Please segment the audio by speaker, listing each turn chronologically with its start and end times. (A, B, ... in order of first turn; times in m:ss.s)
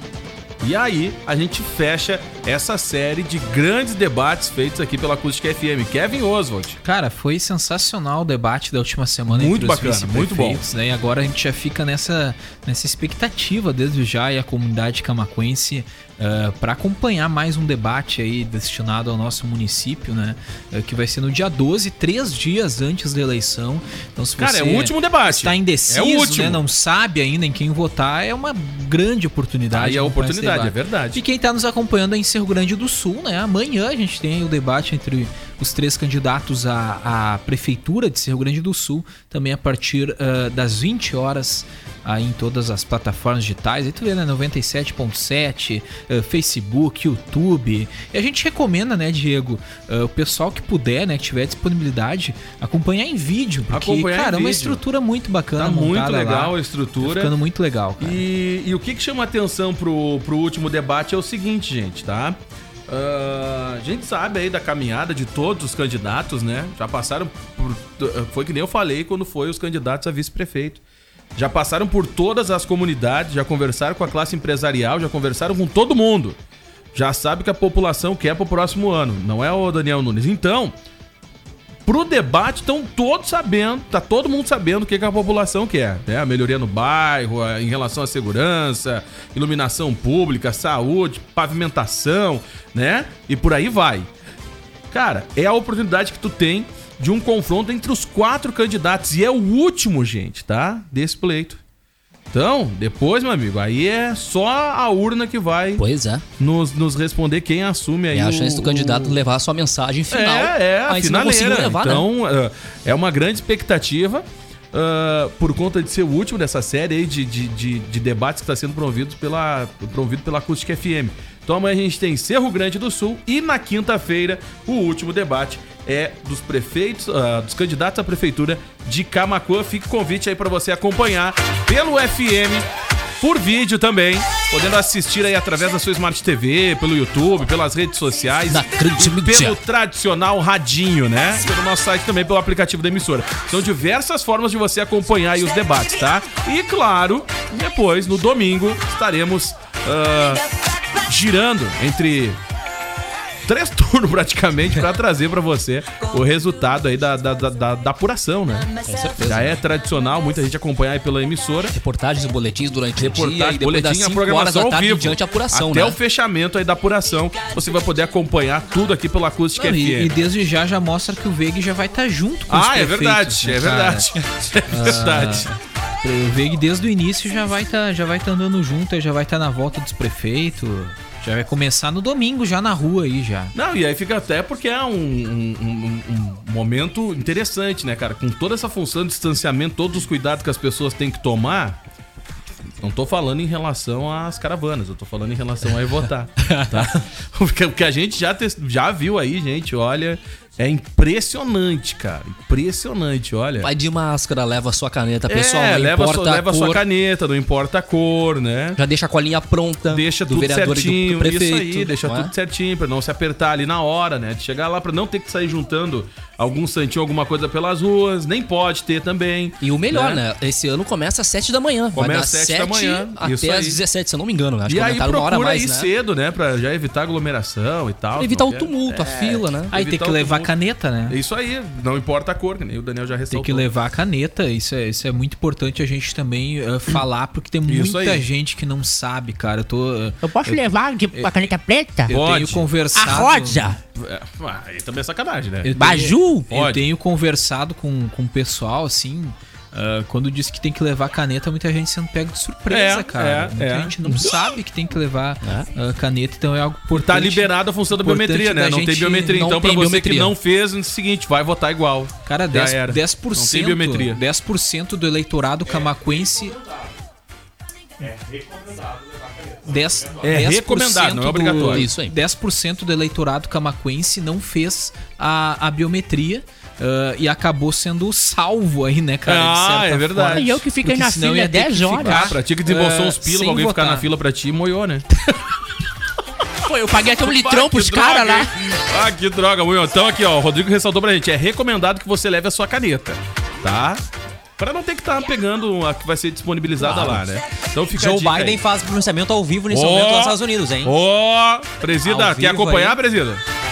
0:00.6-0:06.8 A
0:06.8-0:58.2 B
0:09.3-0:10.6 A
0:24.4-0:26.6 A
0:29.7-0:31.2 A
0:53.7-0:54.8 A
0:55.6-0:57.3 A
0:58.0-1:02.4 A
1:02.9-1:10.8 A
1:11.4-1:16.4 A
1:16.9-1:20.7 A
1:21.8-1:34.1 A
1:34.9-1:41.6 A
1:42.3-1:45.8 A
1:45.8-1:46.2 C
1:46.4-1:49.2 A
1:48.1-1:52.1 C
1:50.1-2:12.7 A
2:13.2-2:30.5 A
2:18.5-2:19.6 C
2:31.0-2:32.4 A
2:33.4-2:41.7 A
2:38.8-2:39.6 C
2:41.7-2:46.0 C
2:43.0-2:50.1 A
2:49.6-2:54.1 B
2:52.5-2:55.5 A
2:54.7-2:55.5 B
2:56.0-3:03.5 B
3:03.5-3:11.8 A
3:12.8-3:23.7 A
3:16.4-3:16.8 C
3:23.6-3:26.8 C
3:25.3-3:28.8 A
3:28.8-3:32.3 C
3:29.9-3:40.2 A
3:39.6-3:45.9 C
3:41.9-3:43.8 A
3:44.6-3:50.5 A
3:48.2-3:49.7 C
3:49.7-3:51.2 B
3:51.1-3:53.7 A
3:53.3-4:01.4 B
3:57.7-3:58.2 A
4:00.2-4:02.1 D
4:02.0-4:03.7 B
4:02.1-4:02.7 A
4:02.9-4:03.8 D
4:04.0-4:05.7 A
4:05.6-4:19.5 B
4:05.8-4:06.4 D
4:06.5-4:06.8 A
4:12.7-4:14.3 A
4:16.9-4:24.2 A
4:19.3-4:20.3 C
4:22.2-4:26.6 B
4:29.6-4:44.0 B
4:30.2-4:31.9 A
4:31.6-4:32.1 C
4:39.2-4:40.6 A
4:40.4-4:42.1 C
4:42.0-4:45.1 A
4:46.6-4:48.5 C
4:47.2-4:54.0 A
4:47.5-4:48.2 D
4:54.6-4:58.6 A
4:56.8-4:57.1 C
4:58.0-5:00.9 E
4:59.7-5:03.4 A
5:02.0-5:03.0 E